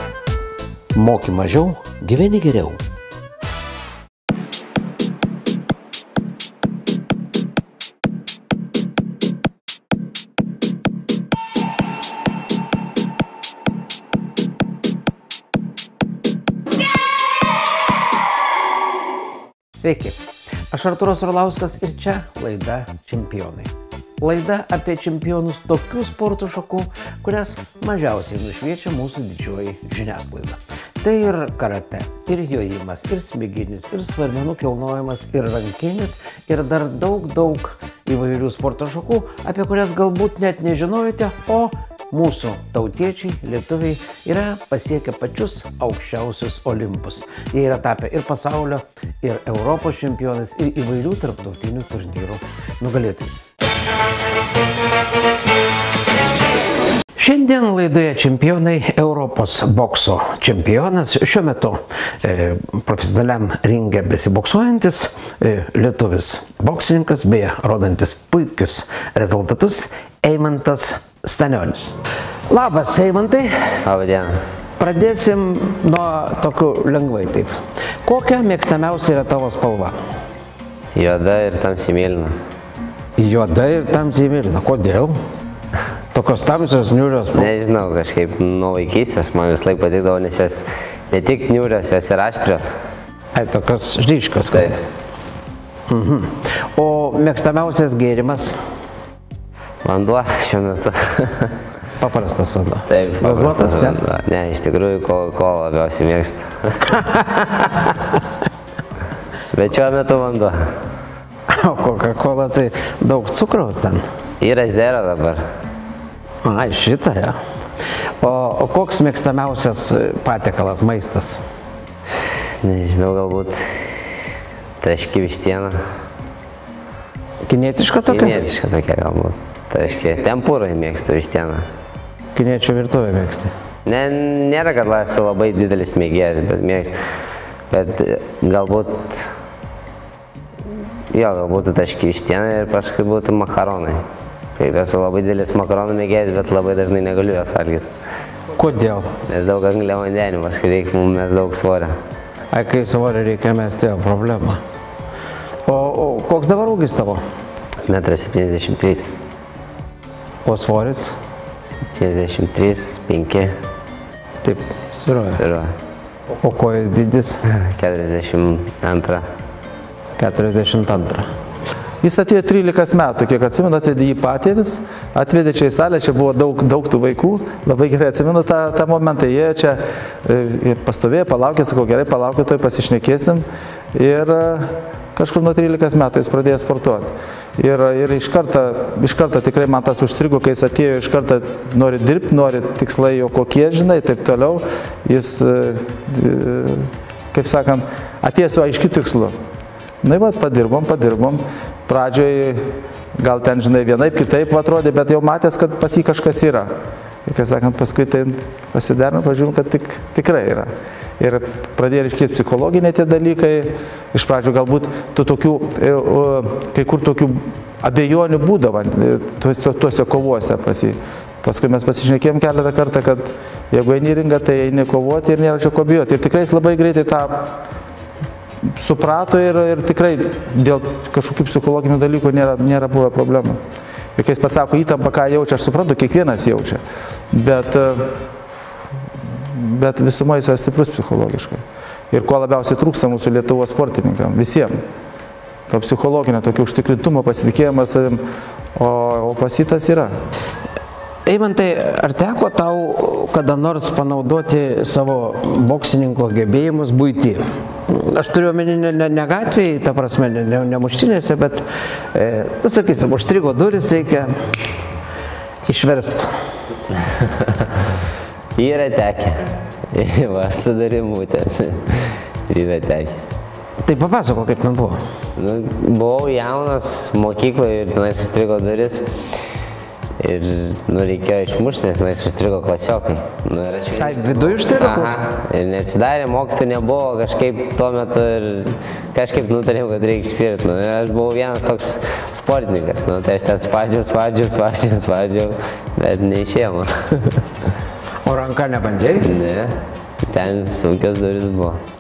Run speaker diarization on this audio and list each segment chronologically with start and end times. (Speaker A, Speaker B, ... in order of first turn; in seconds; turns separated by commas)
Speaker A: 0.9-2.8, Speaker A: 19.7-53.4, Speaker A: 57.2-72.0, Speaker A: 72.5-73.8, Speaker B: 73.8-74.4, Speaker A: 74.8-77.5, Speaker A: 78.0-80.0, Speaker B: 81.0-82.3, Speaker A: 83.2-85.2, Speaker A: 86.1-87.5, Speaker B: 87.3-92.8, Speaker A: 93.3-94.8, Speaker A: 95.9-98.6, Speaker B: 99.8-101.5, Speaker A: 102.0-104.0, Speaker B: 102.9-107.0, Speaker A: 106.9-108.0, Speaker B: 109.5-110.7, Speaker A: 111.5-114.0, Speaker B: 114.4-115.4, Speaker A: 116.4-117.4, Speaker A: 118.2-121.4, Speaker B: 122.6-124.1, Speaker B: 124.8-125.8, Speaker A: 127.5-128.4, Speaker B: 128.1-131.7, Speaker A: 132.3-133.5, Speaker B: 133.8-137.1, Speaker B: 137.7-139.3, Speaker B: 141.1-144.0, Speaker B: 144.6-147.9, Speaker A: 148.6-149.1, Speaker B: 149.3-152.0, Speaker A: 152.5-154.6, Speaker A: 155.7-157.2, Speaker B: 157.8-159.2, Speaker A: 160.4-161.2, Speaker B: 161.6-163.5, Speaker A: 164.4-165.4, Speaker B: 165.3-165.7, Speaker A: 166.4-167.4, Speaker B: 167.5-169.2, Speaker A: 170.2-171.3, Speaker C: 172.0-199.4, Speaker C: 200.0-206.7, Speaker C: 207.3-227.6, Speaker C: 228.8-233.6, Speaker C: 234.2-238.1, Speaker C: 239.4-244.8, Speaker C: 245.7-248.2, Speaker C: 248.8-250.2, Speaker A: 251.3-264.3, Speaker A: 265.7-266.4, Speaker B: 267.0-267.7, Speaker B: 268.6-273.2, Speaker A: 273.8-275.0, Speaker B: 275.4-279.2, Speaker B: 280.2-297.5, Speaker A: 284.0-285.2, Speaker A: 298.2-299.3, Speaker B: 299.2-301.8